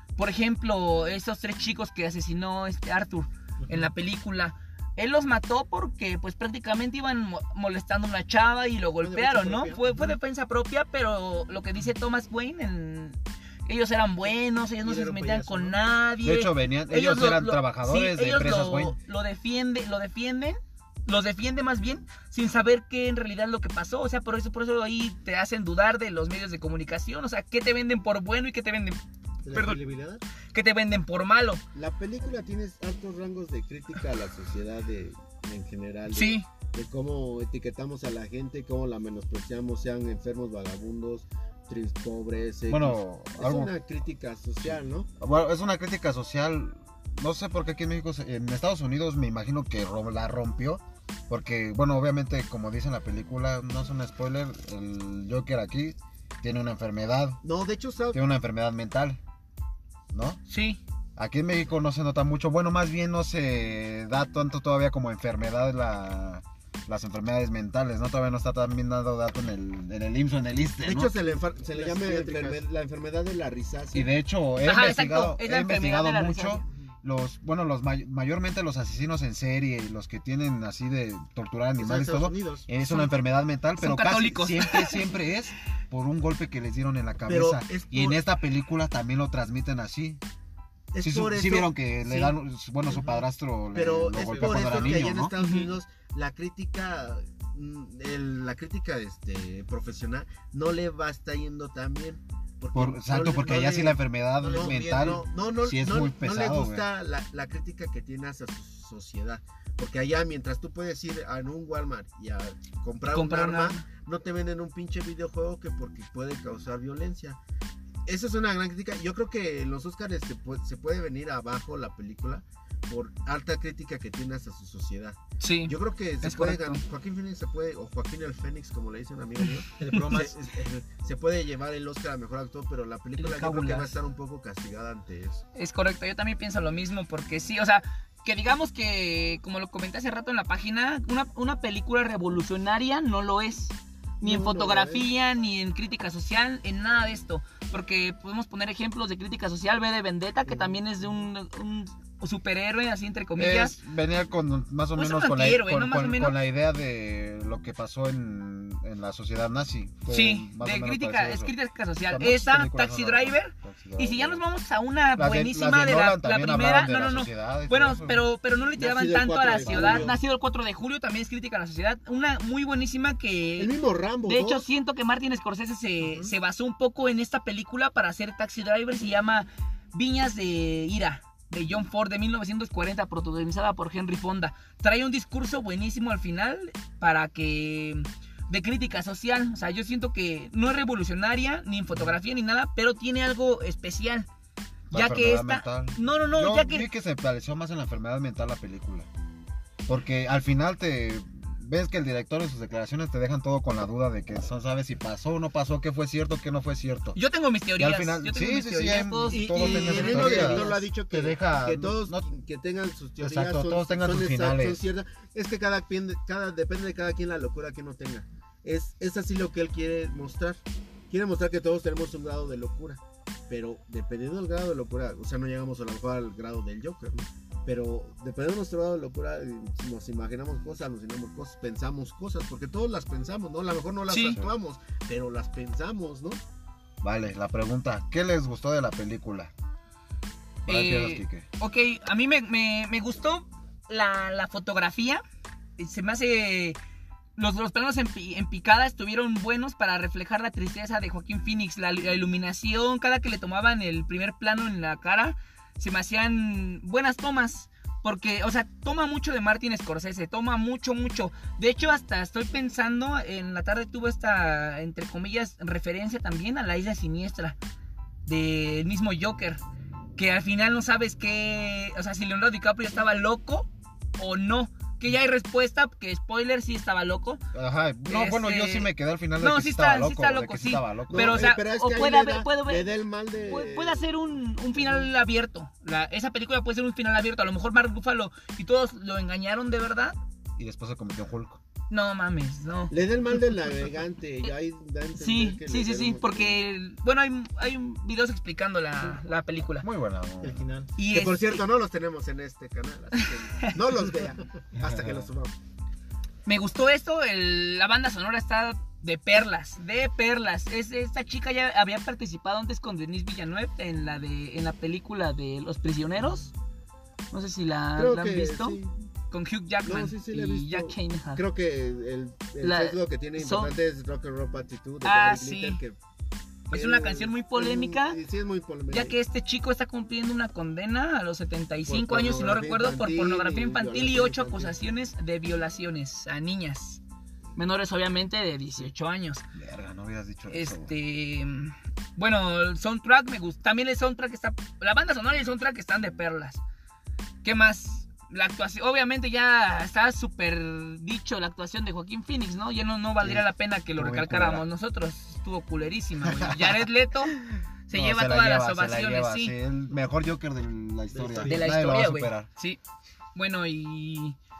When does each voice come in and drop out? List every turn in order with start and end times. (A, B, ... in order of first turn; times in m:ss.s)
0:00.2-0:29.0 A
0:09.0-0:10.2 B
0:14.8-0:15.8 B
0:16.2-0:19.0 C
0:29.4-0:30.2 B
0:29.5-0:29.8 A
0:30.5-0:31.6 A
0:31.7-0:45.1 D
0:36.1-0:36.4 A
0:42.7-0:43.7 C
0:44.6-0:57.4 C
0:57.4-0:58.2 D
0:58.1-0:59.2 C
1:00.1-1:00.4 C
1:00.5-1:00.8 A
1:01.2-1:11.1 C
1:10.8-1:14.1 D
1:11.7-1:12.6 B
1:13.9-1:30.2 C
1:14.6-1:16.6 A
1:21.8-1:22.6 B
1:22.8-1:23.1 A
1:23.8-1:25.0 A
1:27.3-1:28.2 D
1:30.9-1:32.4 D
1:31.0-1:35.3 C
1:33.7-1:57.4 D
1:34.1-1:35.1 B
1:35.4-1:35.7 A
1:42.7-1:46.8 C
1:44.4-1:45.2 B
1:53.1-1:53.8 A
1:58.0-2:15.4 D
2:05.4-2:06.8 A
2:09.8-2:10.4 B
2:13.2-2:13.9 A
2:15.5-2:33.8 A
2:24.2-2:25.0 D
2:30.5-2:30.8 D
2:33.4-2:41.5 C
2:35.0-2:36.4 A
2:40.1-2:53.7 A
2:42.1-2:44.4 C
2:45.2-2:48.3 C
2:48.8-2:50.2 D
2:49.6-2:50.2 C
2:53.6-2:54.7 D
2:54.2-3:14.3 A
2:56.0-2:56.3 D
3:14.9-3:16.9 A
3:14.9-3:19.1 C
3:19.9-3:27.2 C
3:27.1-3:30.8 A
3:27.8-3:32.2 C
3:29.3-3:40.6 D
3:33.2-3:34.8 C
3:41.1-3:56.4 D
3:54.1-3:54.4 A
3:57.0-3:59.5 C
4:00.7-4:01.4 C
4:00.7-4:05.2 A
4:05.8-4:06.8 A
4:07.4-4:27.6 A
4:28.2-4:29.6 A
4:30.2-4:37.4 A
4:37.5-4:41.5 C
4:38.1-4:42.9 A
4:41.1-4:44.1 D
4:43.4-4:50.2 A
4:44.8-4:45.1 D
4:50.6-4:51.6 C
4:51.9-4:52.9 A
4:52.9-4:56.6 D
4:55.2-4:59.8 A
4:59.8-5:00.7 C
5:00.4-5:00.9 B
5:01.0-5:01.6 A
5:01.0-5:05.5 D
5:03.2-5:03.7 A
5:04.8-5:05.3 C
5:06.4-5:16.5 A
5:17.3-5:18.8 A
5:18.0-5:18.9 D
5:19.3-5:21.4 A
5:19.8-5:26.0 D
5:22.6-5:23.7 A
5:25.0-5:25.8 A
5:26.7-5:28.2 A
5:26.7-5:29.2 D
5:28.9-5:37.0 A
5:31.9-5:34.7 D
5:37.6-5:39.4 A
5:39.5-5:40.9 C
5:40.5-5:46.6 A
5:47.4-5:57.4 A
5:53.2-5:54.6 C
5:56.2-6:02.5 C
5:57.9-5:59.5 A
6:01.1-6:01.6 B
6:01.4-6:02.8 A
6:03.3-6:04.4 A